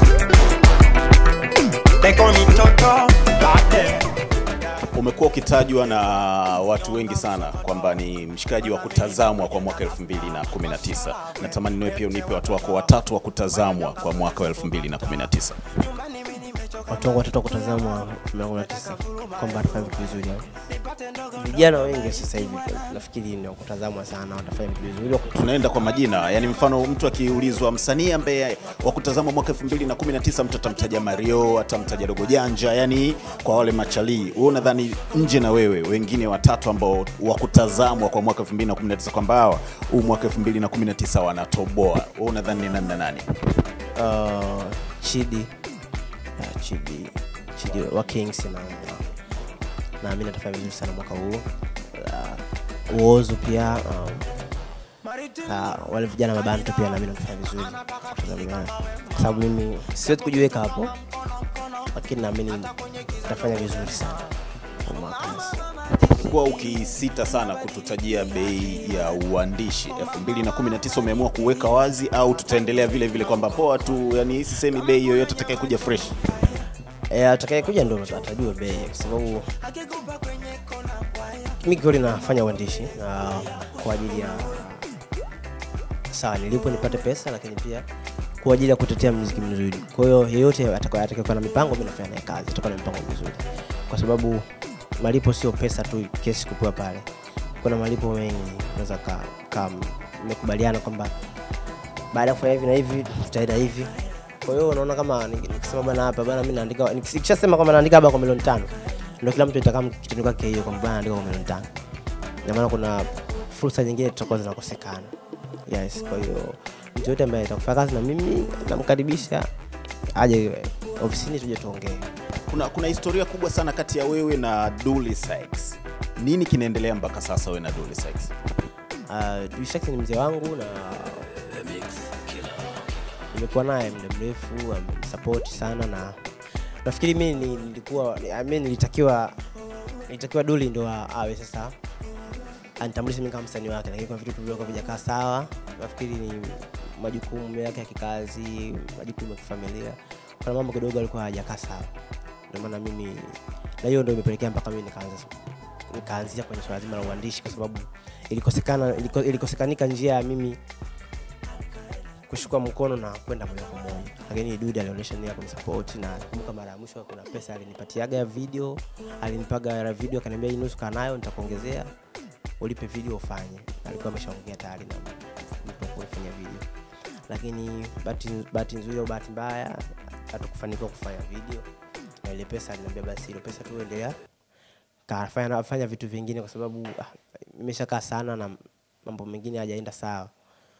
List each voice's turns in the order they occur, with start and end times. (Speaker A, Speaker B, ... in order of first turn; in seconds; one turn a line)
Speaker A: 2.0-4.1
Speaker B: 4.9-15.6
Speaker C: 16.9-20.5
Speaker C: 21.3-25.3
Speaker B: 25.3-43.3
Speaker C: 44.0-45.5
Speaker C: 46.4-49.0
Speaker C: 50.0-54.3
Speaker C: 55.4-61.0
Speaker C: 61.9-64.3
Speaker C: 64.8-65.6
Speaker B: 66.1-76.2
Speaker C: 77.1-79.5
Speaker C: 81.6-84.9
Speaker C: 86.1-87.9
Speaker C: 88.4-94.5
Speaker C: 95.0-97.1
Speaker C: 97.6-101.1
Speaker C: 102.1-111.7
Speaker C: 112.5-115.1
Speaker C: 115.7-119.5
Speaker C: 120.2-122.1
Speaker B: 122.5-128.3
Speaker C: 129.1-131.4
Speaker C: 133.3-136.2
Speaker C: 136.8-139.4
Speaker C: 140.1-141.7
Speaker C: 142.8-151.9
Speaker C: 152.5-155.3
Speaker C: 155.9-160.6
Speaker C: 162.3-171.9
Speaker C: 172.6-176.6
Speaker C: 177.3-181.7
Speaker C: 182.2-184.1
Speaker C: 185.1-190.3